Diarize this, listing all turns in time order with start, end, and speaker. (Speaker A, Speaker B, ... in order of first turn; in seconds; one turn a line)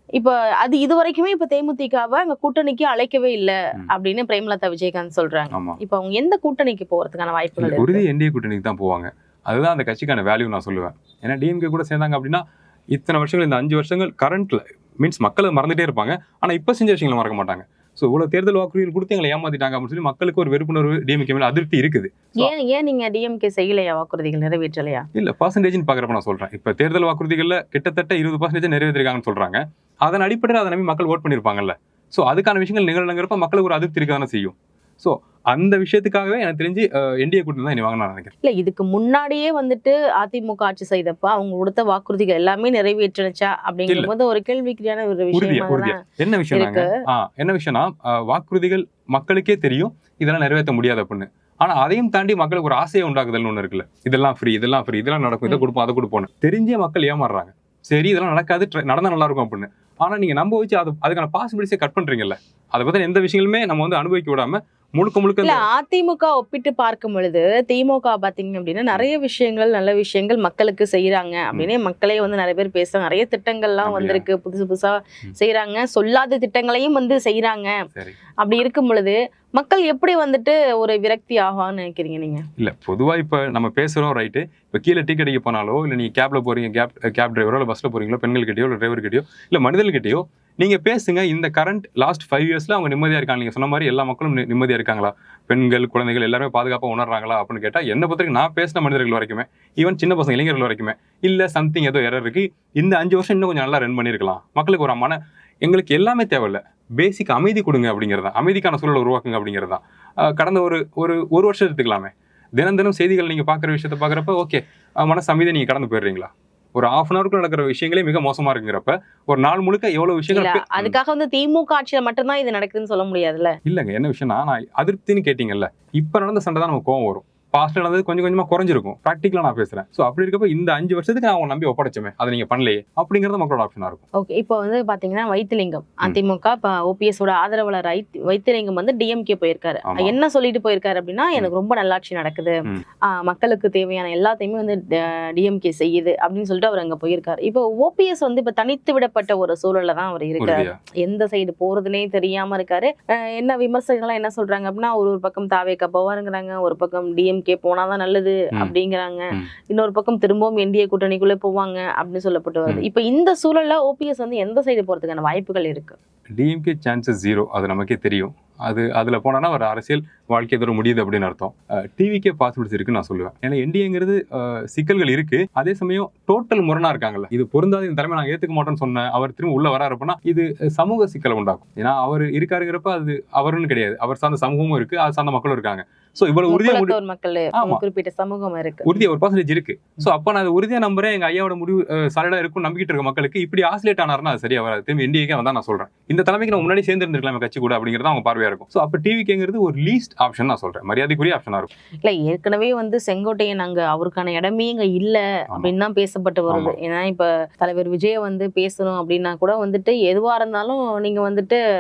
Speaker A: 0.2-8.0
Speaker B: 5.5-5.8
Speaker B: 7.6-22.5
Speaker A: 22.4-25.1
Speaker B: 25.2-38.3
Speaker A: 38.4-46.0
Speaker B: 45.3-65.7
Speaker A: 46.5-46.9
Speaker A: 65.4-77.7
Speaker B: 73.8-74.2
Speaker A: 78.4-82.5
Speaker B: 82.6-121.0
Speaker A: 120.3-123.6
Speaker B: 123.7-134.0
Speaker A: 134.2-166.0
Speaker B: 139.9-140.2
Speaker B: 150.4-150.8
Speaker B: 166.4-187.0
Speaker A: 186.5-189.0
Speaker B: 187.6-187.8
Speaker B: 188.8-201.7
Speaker A: 202.0-211.6
Speaker B: 206.5-206.8